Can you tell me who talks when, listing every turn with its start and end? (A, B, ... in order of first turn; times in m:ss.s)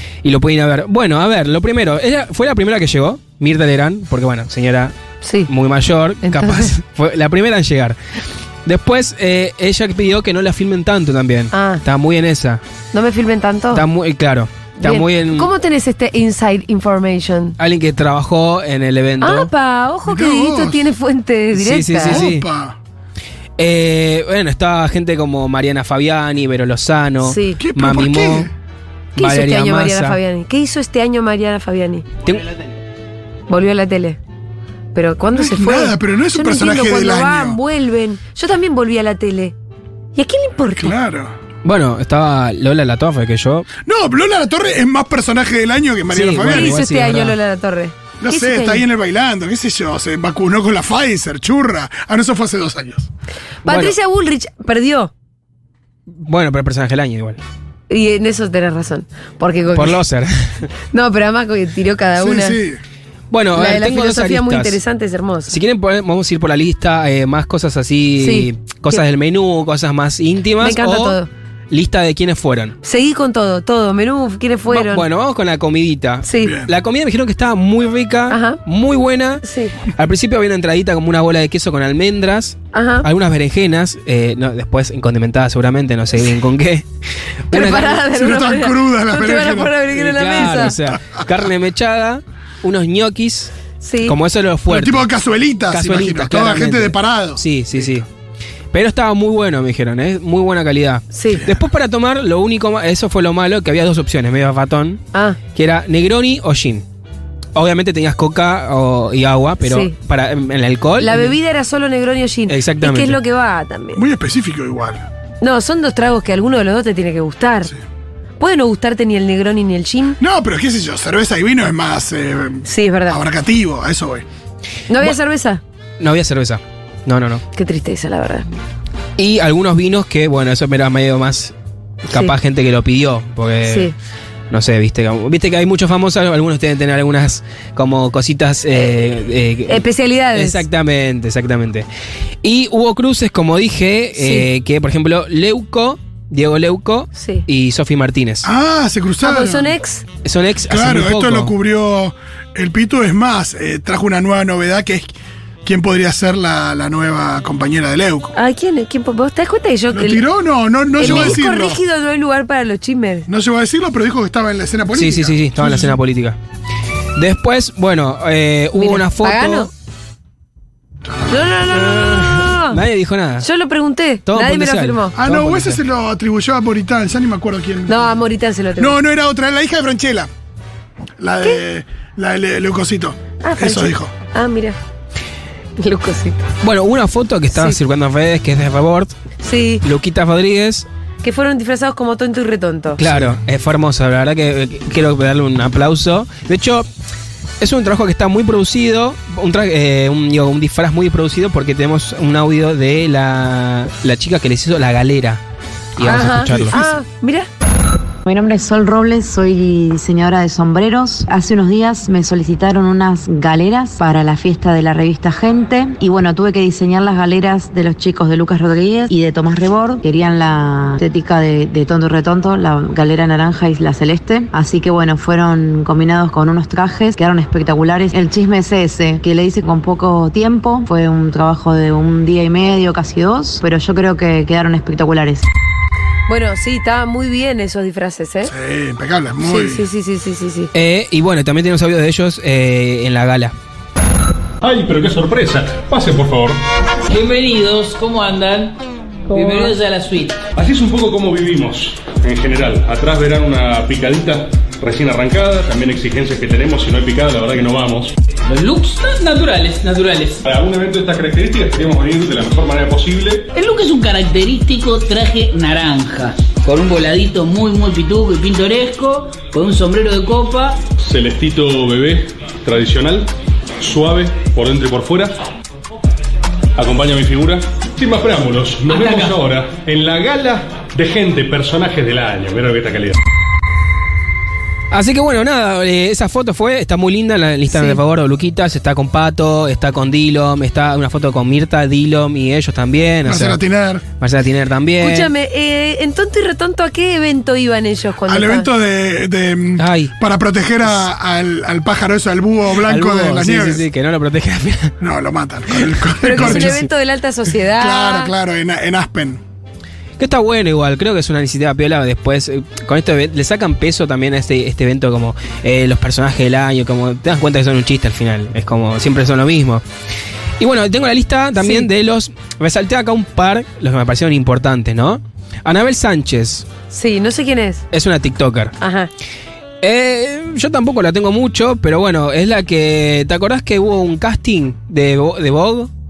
0:00.2-0:04.9 A
0:05.2-0:05.5 B
0:05.5-0:08.0 A
0:06.2-0:06.7 B
0:08.6-0:12.6 A
0:11.5-0:11.8 B
0:12.9-0:13.8 B
0:13.7-0:15.5 A
0:14.8-0:17.6 B
0:17.6-0:19.5 A
0:19.2-0:22.2 B
0:20.0-0:20.8 C
0:21.5-0:22.4 A
0:22.0-0:22.8 C
0:23.6-0:28.5 A
0:27.2-0:27.6 B
0:27.6-0:28.5 C
0:29.2-0:30.2 A
0:29.2-0:32.0 B
0:33.5-0:34.2 B
0:34.9-0:39.5 B
0:35.3-0:37.6 C
0:40.1-0:40.9 B
0:40.8-0:41.3 C
0:41.6-0:43.7 A
0:43.8-0:46.8 C
0:46.1-0:47.4 A
0:46.5-0:48.8 B
0:48.2-0:53.1 C
0:53.6-0:55.1 B
0:53.6-0:53.9 A
0:56.2-0:57.4 A
0:57.9-1:00.0 B
0:59.7-1:00.7 A
1:00.9-1:02.6 B
1:02.2-1:02.8 C
1:03.3-1:04.8 A
1:03.5-1:05.5 B
1:05.5-1:11.2 A
1:08.2-1:09.0 B
1:10.6-1:11.3 B
1:11.7-1:12.8 A
1:12.8-1:15.0 B
1:14.7-1:19.4 A
1:16.2-1:16.5 B
1:16.4-1:16.7 C
1:18.3-1:18.6 B
1:19.4-1:19.7 B
1:19.9-1:26.9 A
1:22.7-1:23.1 B
1:27.5-1:28.0 A
1:27.5-1:30.8 B
1:28.1-1:29.7 C
1:29.9-1:33.5 A
1:30.9-1:31.2 C
1:33.8-1:34.1 B
1:34.0-1:35.1 A
1:34.7-1:38.0 C
1:35.7-1:38.0 A
1:38.7-1:45.0 A
1:41.1-1:41.4 B
1:45.1-1:45.4 B
1:45.5-1:46.8 A
1:47.5-1:51.3 A
1:49.6-1:49.9 B
1:51.0-1:54.0 B
1:52.5-1:53.2 A
1:53.9-1:55.0 C
1:55.4-1:57.7 B
1:58.4-2:00.2 B
2:00.2-2:04.2 C
2:02.6-2:03.2 B
2:04.9-2:05.6 B
2:06.0-2:07.4 A
2:07.5-2:08.5 B
2:09.2-2:11.5 A
2:12.1-2:13.9 A
2:13.6-2:13.9 B
2:14.5-2:21.8 A
2:19.7-2:20.6 B
2:22.4-2:28.5 A
2:24.2-2:24.5 B
2:27.1-2:27.4 B
2:28.4-2:29.8 C
2:29.2-2:30.0 B
2:30.2-2:31.5 A
2:30.7-2:35.1 C
2:35.6-2:38.3 C
2:38.3-2:40.2 B
2:39.9-2:41.8 C
2:41.0-2:43.3 B
2:41.0-2:41.4 A
2:43.3-2:46.0 C
2:44.9-2:46.4 A
2:47.2-2:49.7 A
2:48.8-2:49.7 B
2:51.3-2:52.8 B
2:51.8-2:53.5 A
2:53.4-2:55.1 B
2:54.2-2:55.8 A
2:55.2-2:58.1 C
2:57.9-2:59.0 B
2:58.8-3:00.3 C
3:01.2-3:04.1 C
3:03.4-3:04.8 B
3:05.8-3:06.4 B
3:06.6-3:09.1 A
3:09.4-3:09.8 B
3:09.8-3:10.9 A
3:11.2-3:13.0 B
3:13.0-3:16.8 A
3:17.6-3:25.4 A
3:26.0-3:26.8 A
3:26.0-3:27.5 B
3:28.2-3:55.4 D
3:56.3-3:58.5 B
3:58.4-3:59.8 C
3:59.4-4:00.7 B
4:00.7-4:03.5 A
4:04.6-4:06.6 E
4:07.1-4:08.8 F
4:09.3-4:10.4 F
4:10.5-4:18.1 E
4:18.4-4:20.4 F
4:20.4-4:23.5 E
4:23.5-4:30.8 F
4:31.0-4:35.4 E
4:36.8-4:43.2 E
4:38.9-4:39.4 F
4:44.9-4:53.6 A
4:47.7-4:48.0 B
4:53.2-4:54.0 C
4:54.2-4:55.3 A
4:55.0-4:58.7 B
4:58.3-5:03.8 C
4:59.8-5:00.1 A
5:02.8-5:04.9 A
5:05.0-5:06.8 C
5:06.2-5:08.3 B
5:06.3-5:06.9 A
5:07.8-5:09.4 C
5:10.2-5:19.8 A
5:20.6-5:26.6 A
5:21.6-5:21.9 B
5:26.9-5:27.8 B
5:27.9-5:28.8 A
5:28.8-5:29.1 B
5:29.8-5:35.9 A